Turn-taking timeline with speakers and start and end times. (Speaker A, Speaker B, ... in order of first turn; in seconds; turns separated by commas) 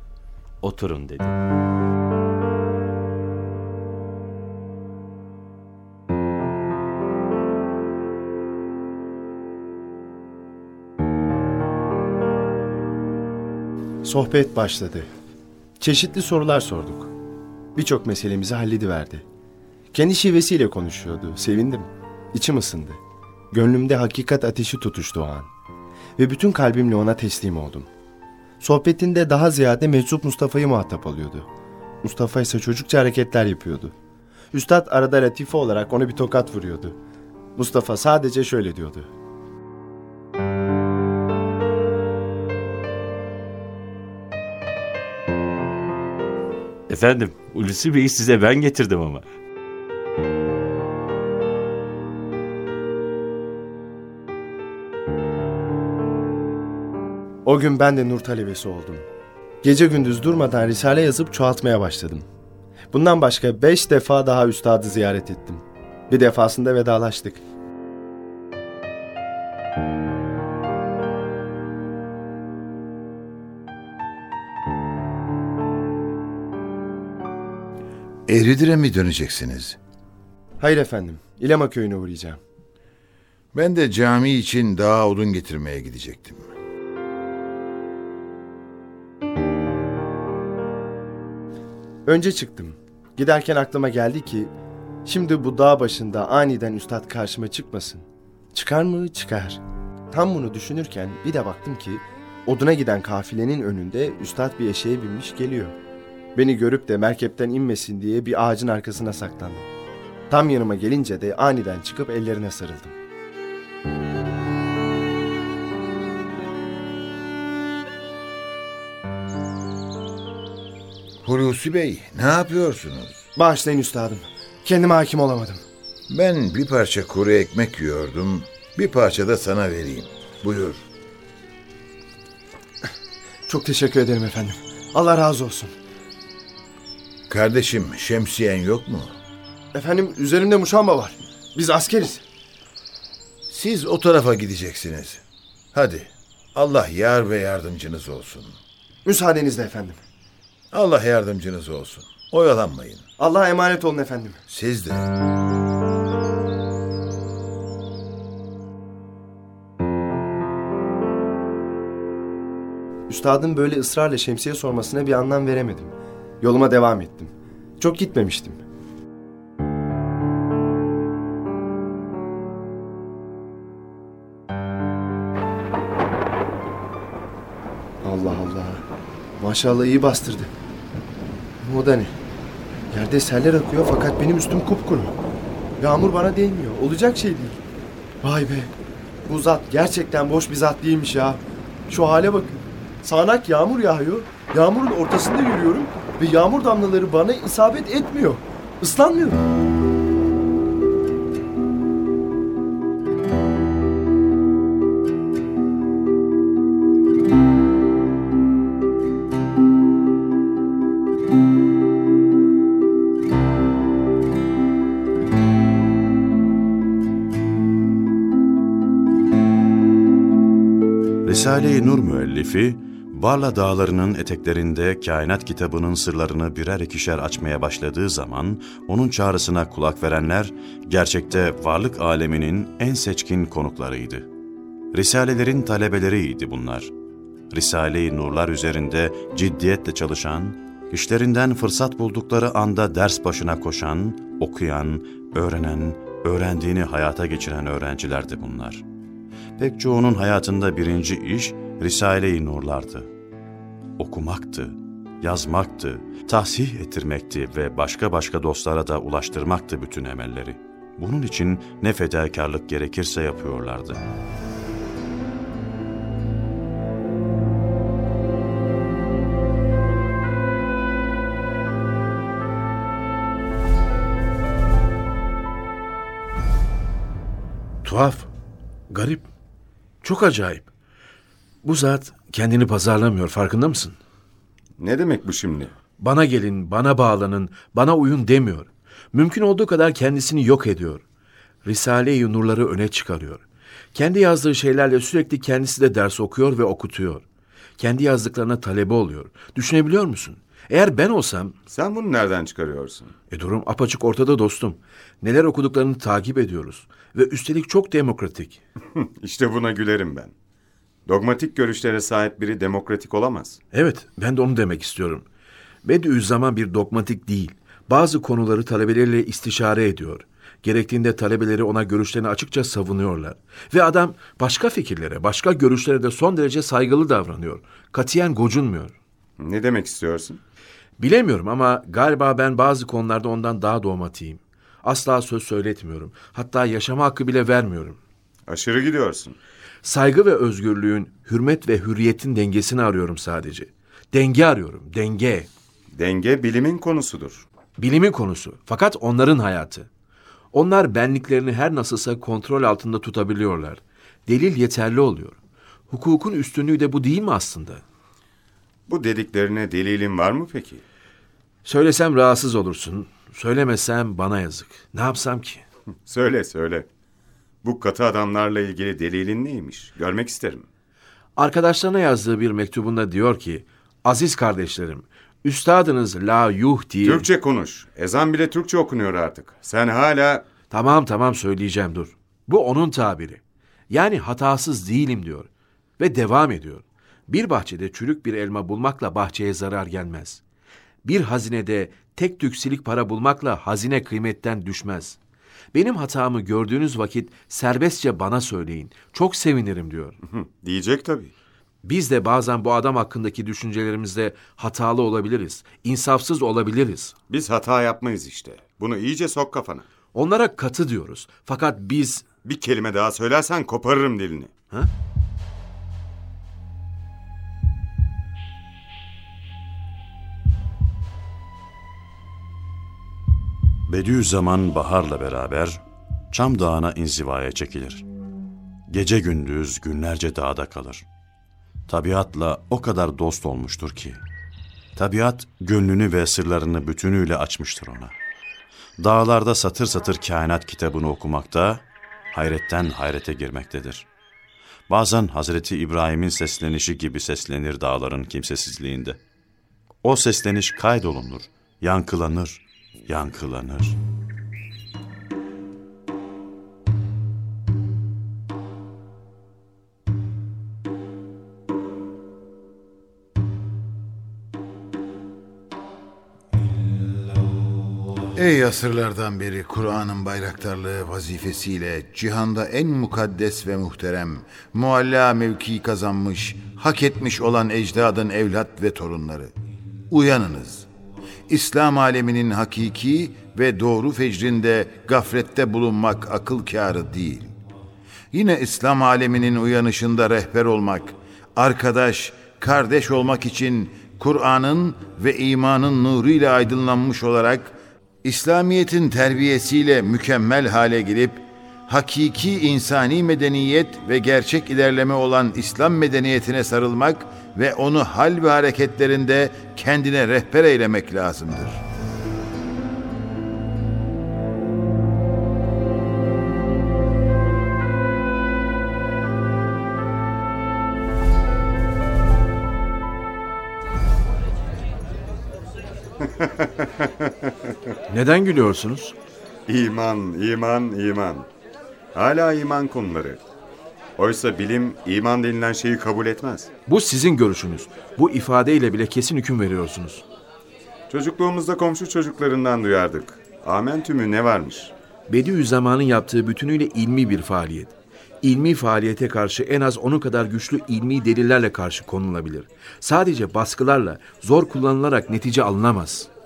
Speaker A: 0.6-1.4, Speaker B: 14.0-15.1, Speaker B: 15.8-17.1, Speaker B: 17.8-19.2, Speaker B: 19.9-23.0, Speaker B: 23.5-25.5, Speaker B: 26.2-27.9, Speaker B: 28.6-31.5, Speaker B: 32.0-33.9, Speaker B: 34.5-37.0, Speaker B: 37.5-39.1, Speaker A: 46.9-49.2, Speaker B: 57.4-59.0, Speaker B: 59.6-62.2, Speaker B: 62.9-67.4, Speaker C: 78.3-79.8, Speaker B: 80.6-82.4, Speaker C: 83.5-86.5, Speaker B: 92.0-94.5, Speaker B: 95.0-105.8, Speaker B: 106.3-109.7, Speaker B: 110.3-112.9, Speaker C: 121.2-123.2, Speaker B: 123.3-125.6, Speaker C: 126.1-130.8, Speaker B: 133.5-135.7, Speaker C: 137.3-139.2, Speaker B: 139.7-142.2, Speaker C: 143.5-145.2, Speaker C: 145.7-148.6, Speaker B: 149.0-150.0, Speaker C: 150.7-153.0, Speaker B: 153.2-154.4, Speaker C: 154.5-155.1, Speaker B: 163.1-168.6, Speaker B: 178.0-178.8, Speaker B: 179.4-180.5, Speaker B: 181.6-182.1, Speaker B: 182.9-185.2, Speaker B: 185.8-187.6, Speaker B: 188.2-188.7, Speaker B: 189.3-199.4, Speaker D: 221.2-234.3, Speaker D: 234.9-236.9, Speaker D: 237.5-248.8, Speaker D: 249.6-253.1, Speaker D: 254.0-264.0, Speaker E: 277.8-278.3, Speaker E: 278.9-279.3, Speaker E: 280.0-280.7, Speaker E: 281.6-284.0, Speaker F: 284.8-285.7, Speaker E: 286.0-291.0, Speaker E: 291.6-293.4, Speaker E: 293.9-297.2, Speaker E: 297.8-301.5, Speaker F: 301.7-303.1, Speaker E: 303.3-308.6, Speaker F: 308.9-310.3, Speaker F: 311.1-313.6, Speaker E: 313.7-315.2, Speaker E: 315.8-328.9, Speaker F: 329.4-330.4, Speaker E: 331.0-338.0, Speaker F: 338.5-339.4, Speaker E: 339.8-345.5, Speaker F: 345.9-347.4, Speaker E: 347.8-349.9, Speaker E: 350.5-357.8, Speaker F: 358.9-360.8, Speaker E: 361.6-365.6, Speaker F: 366.1-366.9, Speaker F: 367.6-370.7, Speaker E: 371.4-377.3, Speaker F: 377.0-380.4, Speaker E: 380.7-390.4, Speaker E: 391.0-395.2, Speaker E: 395.7-400.2, Speaker F: 400.2-401.3, Speaker E: 401.8-407.1, Speaker F: 407.3-409.9, Speaker E: 410.1-412.2, Speaker F: 412.4-414.5, Speaker D: 423.9-428.0, Speaker D: 428.9-431.0, Speaker D: 431.9-434.2, Speaker D: 434.9-438.1, Speaker D: 439.0-444.1, Speaker D: 444.9-449.2, Speaker D: 450.0-454.0, Speaker C: 468.3-479.5, Speaker C: 480.1-480.9, Speaker C: 481.5-487.5, Speaker C: 488.3-511.8, Speaker F: 526.4-527.3, Speaker E: 528.1-529.1, Speaker F: 529.7-531.5, Speaker F: 532.1-533.4, Speaker F: 534.2-536.7, Speaker E: 536.9-540.2, Speaker F: 541.1-544.9, Speaker E: 545.3-556.3